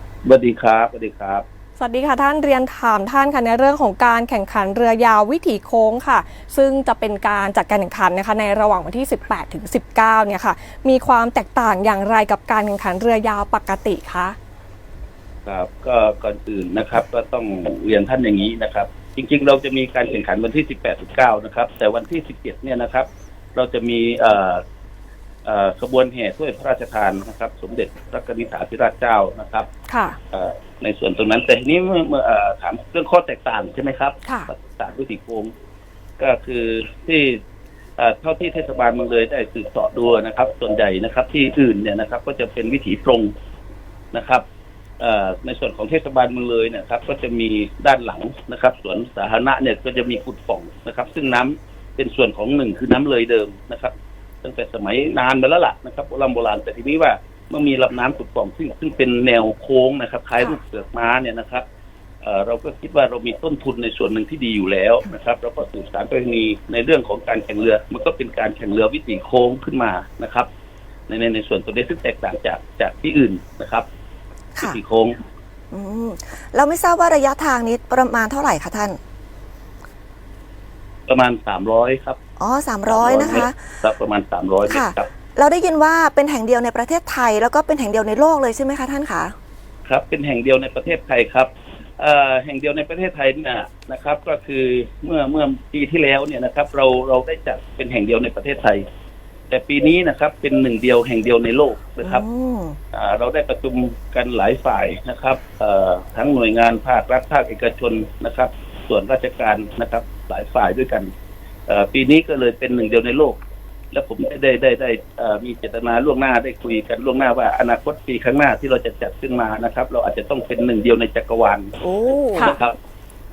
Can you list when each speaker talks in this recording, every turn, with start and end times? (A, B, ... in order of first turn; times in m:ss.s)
0:00.2-0:01.4 A
0:01.8-0:14.4 B
0:15.4-0:24.6 A
0:25.4-0:29.7 A
0:29.9-0:30.2 B
0:30.3-0:35.5 A
0:36.2-0:37.4 A
0:38.0-0:43.3 A
0:44.1-0:44.4 A
0:45.0-0:53.9 A
0:54.4-1:01.6 A
1:02.2-1:10.5 A
1:11.1-1:13.8 A
1:14.6-1:15.2 A
1:15.7-1:19.0 C
1:21.1-1:22.2 A
1:22.4-1:23.7 C
1:22.9-1:25.1 A
1:24.7-1:29.3 C
1:29.8-1:38.8 A
1:39.5-1:42.2 A
1:42.0-1:42.8 C
1:42.9-1:51.1 A
1:51.7-1:53.4 A
1:53.9-2:01.8 A
2:01.8-2:02.6 C
2:02.4-2:02.8 A